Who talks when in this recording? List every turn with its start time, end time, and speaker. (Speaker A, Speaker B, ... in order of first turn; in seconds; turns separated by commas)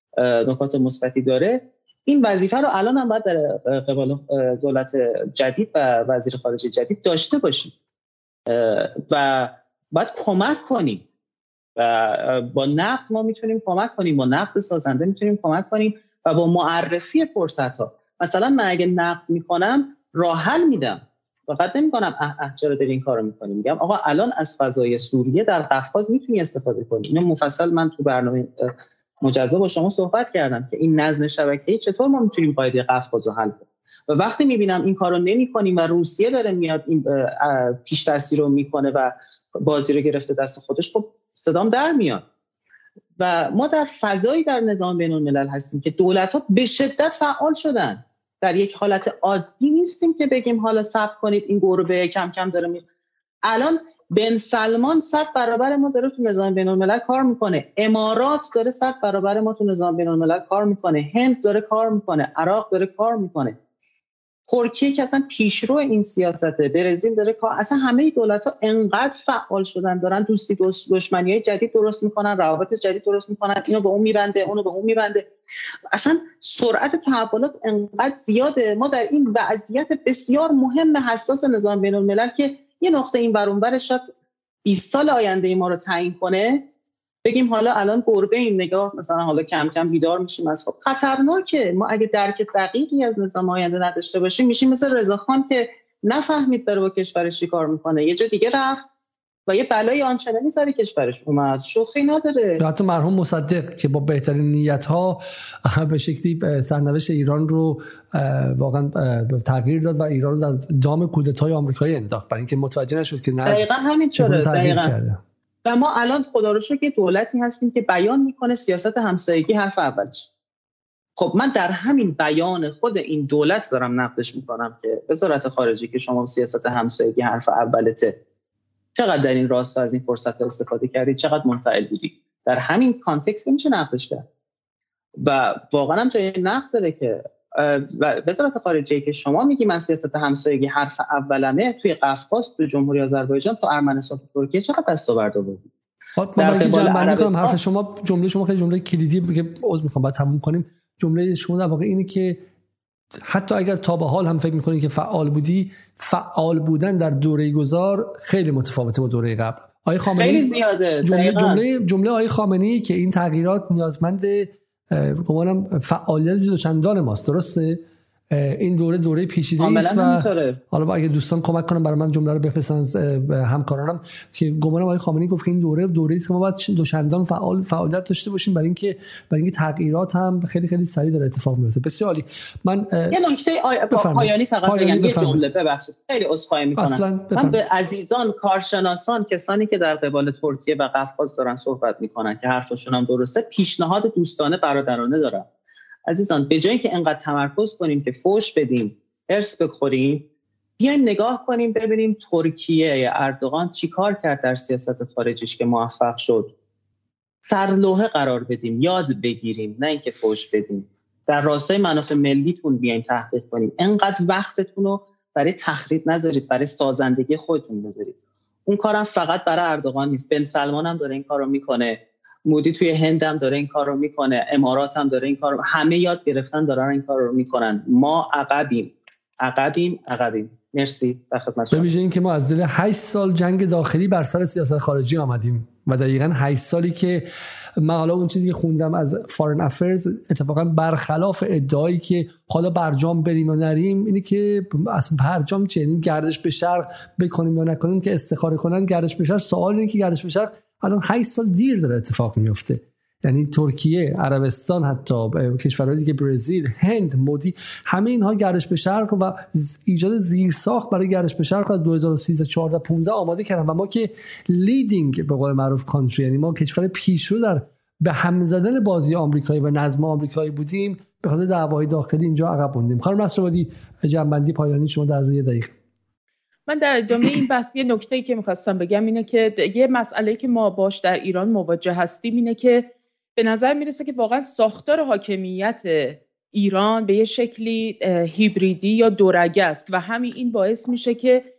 Speaker A: 0.2-7.7, Speaker A: 8.5-11.0, Speaker A: 11.8-42.2, Speaker A: 43.2-52.8, Speaker A: 53.4-63.5, Speaker A: 64.5-75.3, Speaker A: 75.9-84.1, Speaker A: 84.6-86.6, Speaker A: 87.2-98.8, Speaker A: 99.5-102.6, Speaker B: 102.6-115.2, Speaker A: 113.5-114.9, Speaker A: 115.6-120.3, Speaker A: 121.2-128.1, Speaker A: 128.9-134.2, Speaker A: 135.2-145.7, Speaker B: 146.2-152.4, Speaker A: 146.4-147.6, Speaker B: 153.2-183.2, Speaker A: 160.1-161.6, Speaker A: 169.6-170.6, Speaker A: 183.1-195.4, Speaker B: 183.9-185.5, Speaker B: 186.8-187.6, Speaker A: 196.1-200.2, Speaker A: 200.8-206.5, Speaker A: 207.4-218.1, Speaker A: 218.7-231.9, Speaker B: 231.7-275.7, Speaker C: 276.7-291.4